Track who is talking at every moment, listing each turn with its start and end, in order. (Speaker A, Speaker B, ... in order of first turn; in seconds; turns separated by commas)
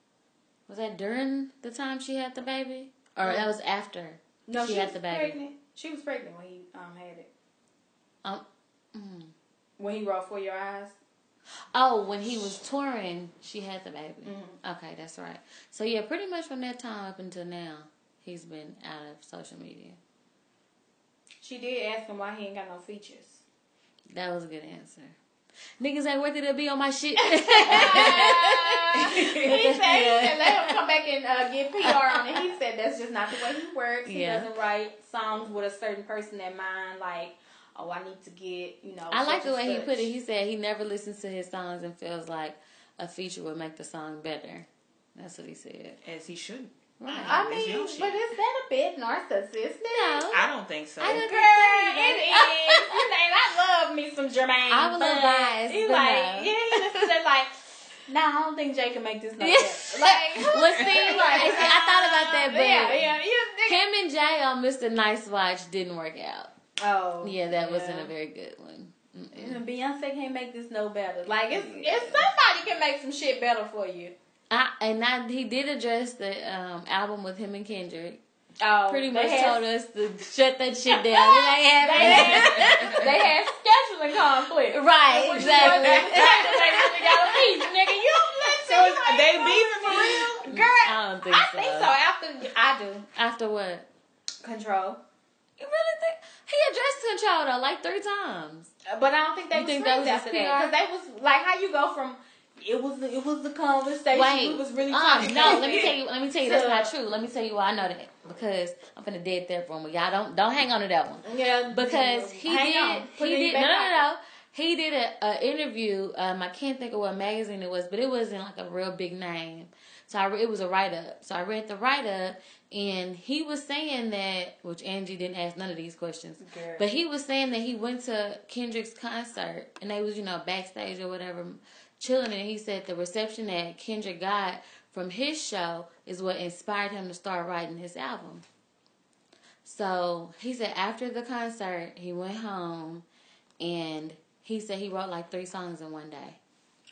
Speaker A: 0.7-5.4, Speaker B: 3.2-3.5, Speaker B: 4.5-7.3, Speaker A: 8.9-9.3, Speaker B: 9.8-11.0, Speaker A: 11.7-20.0, Speaker B: 14.2-14.6, Speaker B: 21.4-23.4, Speaker A: 24.1-25.2, Speaker A: 25.8-30.8, Speaker B: 27.2-40.1, Speaker C: 27.7-28.2, Speaker C: 28.9-29.6, Speaker A: 31.8-32.5, Speaker A: 34.1-34.5, Speaker A: 39.1-46.0, Speaker C: 46.0-48.2, Speaker A: 47.0-47.4, Speaker B: 47.3-50.3, Speaker A: 49.9-50.5, Speaker C: 50.3-51.2, Speaker A: 51.0-53.0, Speaker B: 51.0-57.5, Speaker A: 54.7-57.1, Speaker B: 58.1-63.8, Speaker A: 59.4-63.1, Speaker C: 60.7-61.6, Speaker A: 63.7-66.5, Speaker B: 66.8-68.1, Speaker A: 67.2-69.6, Speaker B: 69.3-74.1, Speaker A: 71.5-72.3, Speaker A: 74.5-78.2, Speaker B: 78.6-79.6, Speaker A: 78.9-83.2, Speaker B: 80.9-93.1, Speaker C: 81.8-83.1, Speaker A: 84.7-87.5, Speaker C: 85.3-86.7, Speaker C: 88.4-90.4, Speaker A: 90.0-92.0, Speaker A: 93.1-93.9, Speaker B: 94.4-95.0, Speaker A: 95.6-98.7, Speaker B: 98.9-106.9, Speaker A: 99.5-100.8, Speaker A: 104.1-138.4, Speaker C: 105.2-105.9, Speaker B: 111.2-114.0, Speaker B: 126.4-126.9, Speaker A: 139.6-143.1, Speaker A: 143.6-146.4